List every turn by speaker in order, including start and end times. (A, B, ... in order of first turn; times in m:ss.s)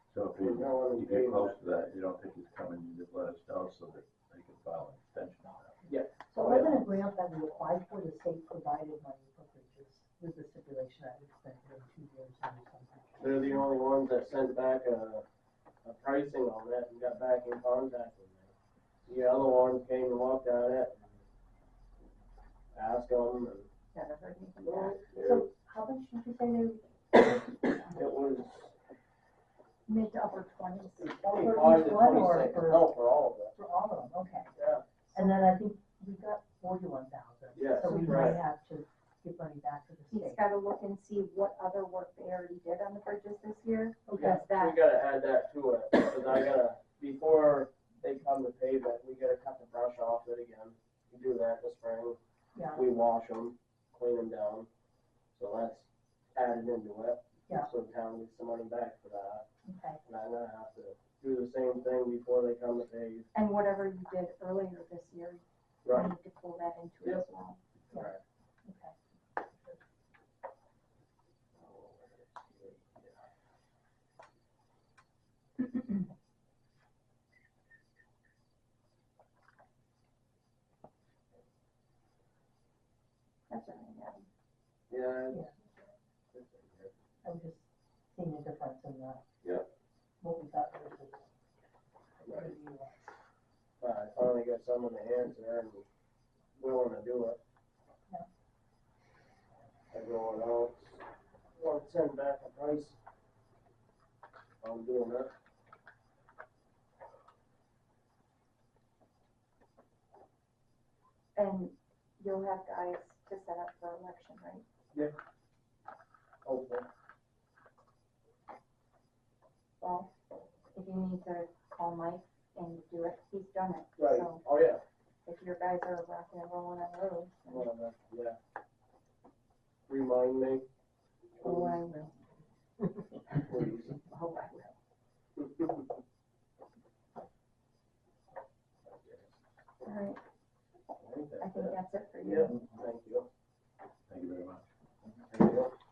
0:00.1-0:05.8 A
0:00.4-0:01.8 B
0:05.8-0:07.0 B
0:06.3-0:13.6 C
0:13.2-0:15.2 B
0:15.8-0:18.5 B
0:19.1-0:21.0 B
0:22.7-0:23.7 B
0:23.9-0:25.0 D
0:24.6-0:25.5 B
0:25.2-0:28.0 C
0:27.9-0:28.7 B
0:29.9-0:31.1 D
0:31.0-0:33.6 B
0:31.2-0:32.9 C
0:33.5-0:34.6 C
0:34.6-0:34.8 B
0:35.1-0:40.4 C
0:37.6-0:38.4 B
0:37.8-0:38.4 D
0:40.1-0:44.8 D
0:44.1-0:44.4 C
0:44.2-0:52.2 B
0:52.6-0:52.8 C
0:52.7-0:54.7 B
0:55.3-0:59.4 B
0:59.6-1:00.0 C
1:00.0-1:03.3 B
1:03.3-1:07.6 D
1:05.8-1:06.1 B
1:07.9-1:08.2 B
1:08.6-1:09.0 C
1:11.6-1:13.2 B
1:23.5-1:24.3 D
1:24.9-1:25.5 B
1:26.3-1:26.9 B
1:27.2-1:29.2 C
1:30.2-1:31.3 C
1:32.2-1:33.1 C
1:32.2-1:32.6 B
1:33.8-1:35.8 B
1:36.6-1:37.4 B
1:39.9-1:41.0 B
1:41.5-1:43.0 B
1:44.6-1:45.3 B
1:51.4-1:54.6 D
1:56.4-1:56.9 B
1:59.8-2:00.1 D
2:00.7-2:04.4 D
2:04.0-2:04.8 B
2:05.2-2:07.7 D
2:07.5-2:08.4 B
2:09.9-2:10.7 B
2:11.4-2:11.8 B
2:11.4-2:12.2 D
2:13.4-2:14.0 B
2:13.9-2:14.8 D
2:15.4-2:15.8 B
2:18.9-2:19.3 B
2:19.8-2:20.2 D
2:21.0-2:23.3 B
2:21.4-2:22.5 D
2:24.1-2:24.6 A
2:25.0-2:25.7 B